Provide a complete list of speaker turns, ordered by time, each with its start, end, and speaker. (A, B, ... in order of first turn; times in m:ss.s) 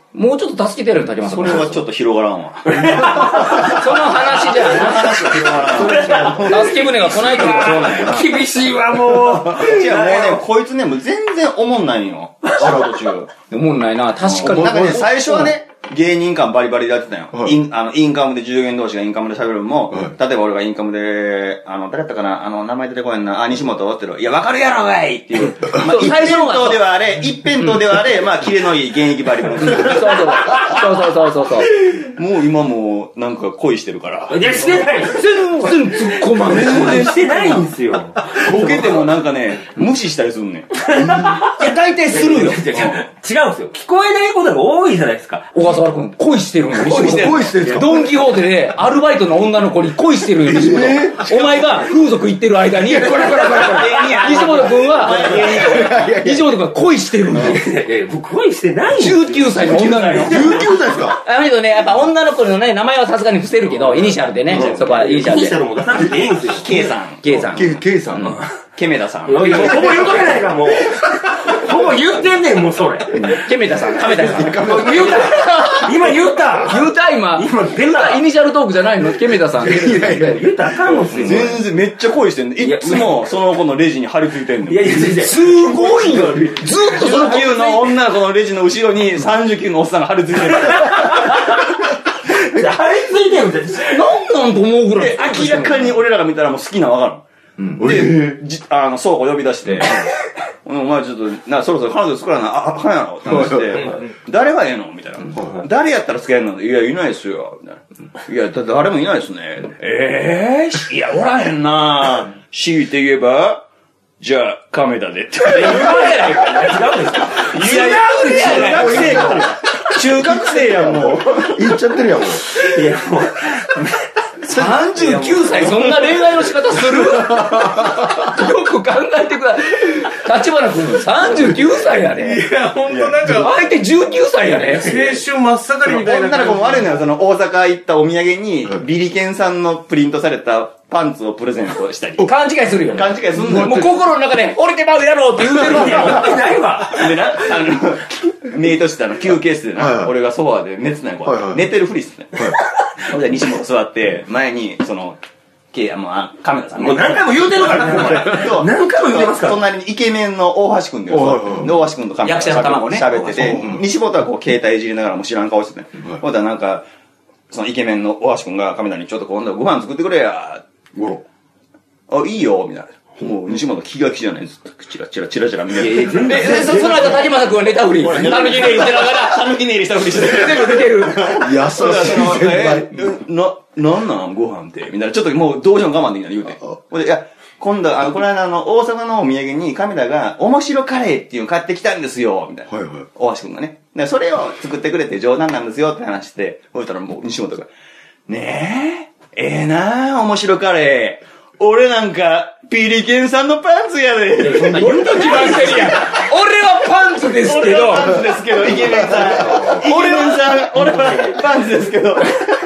0:00.1-0:01.8 A
0:01.2-0:03.9 B
0:02.7-0:03.7 C
0:03.2-0:05.5 A
0:04.5-0:06.9 B
0:05.5-0:10.4 C
0:06.1-0:08.3 A
0:09.5-0:13.3 B
0:13.5-0:15.5 A
0:14.3-0:30.7 B
0:14.4-0:15.1 D
0:25.6-0:26.8 A
0:29.6-0:31.7 A
0:31.9-0:34.6 B
0:34.3-0:38.9 C
0:35.0-0:37.7 A
0:38.3-0:40.7 B
0:38.7-0:38.9 A
0:40.9-0:45.5 C
0:41.4-0:43.0 A
0:45.5-0:57.6 A
0:46.8-0:47.9 C
0:46.8-0:48.1 D
0:50.4-0:51.8 D
0:52.8-0:54.3 D
0:53.6-0:56.1 B
0:55.1-0:56.5 D
0:57.3-1:00.7 C
0:57.3-0:57.6 D
0:59.0-1:05.7 A
1:00.1-1:01.2 D
1:04.5-1:06.7 C
1:04.7-1:05.0 B
1:06.1-1:07.4 B
1:07.2-1:08.4 A
1:07.5-1:08.4 D
1:08.2-1:08.5 C
1:08.8-1:10.0 B
1:09.2-1:13.4 C
1:09.6-1:09.9 D
1:13.2-1:21.6 A
1:14.1-1:15.5 D
1:14.6-1:18.2 C
1:19.6-1:20.4 D
1:20.0-1:21.6 C
1:21.2-1:25.2 B
1:22.6-1:23.2 C
1:24.7-1:26.4 C
1:25.2-1:28.0 A
1:26.0-1:31.4 B
1:32.3-1:34.0 C
1:33.8-1:36.0 A
1:35.0-1:37.2 B
1:37.8-1:40.1 B
1:37.8-1:38.4 D
1:40.6-1:53.6 B
1:54.2-1:56.3 B
1:55.4-1:59.4 A
1:55.5-1:59.5 C
1:57.7-2:01.7 B
1:58.5-1:59.6 D
2:00.2-2:02.5 D
2:02.4-2:03.9 C
2:04.4-2:12.5 A
2:04.6-2:05.2 D
2:05.0-2:05.8 C
2:05.2-2:05.4 B
2:07.0-2:08.1 D
2:12.2-2:13.6 E
2:13.2-2:15.2 A
2:14.8-2:17.0 E
2:15.9-2:22.3 B
2:22.2-2:26.5 A
2:22.9-2:24.0 B
2:23.5-2:23.9 D
2:25.4-2:27.3 C
2:26.8-2:35.2 B
2:29.8-2:30.1 D
2:31.2-2:31.6 D
2:35.7-2:46.9 B
2:36.8-2:39.6 C
2:41.1-2:41.8 D
2:42.2-2:43.8 A
2:43.3-2:43.8 D
2:47.5-2:50.6 B
2:51.0-2:51.2 D
2:52.1-2:57.3 B
2:55.8-2:57.2 C
2:55.8-3:01.6 A
2:58.0-3:17.7 B
3:01.3-3:03.1 D
3:12.7-3:13.0 D
3:18.3-3:25.8 B
3:24.4-3:26.1 C
3:24.7-3:28.3 A
3:27.3-3:32.4 B
3:29.1-3:29.8 C
3:29.9-3:30.4 A
3:30.8-3:31.4 C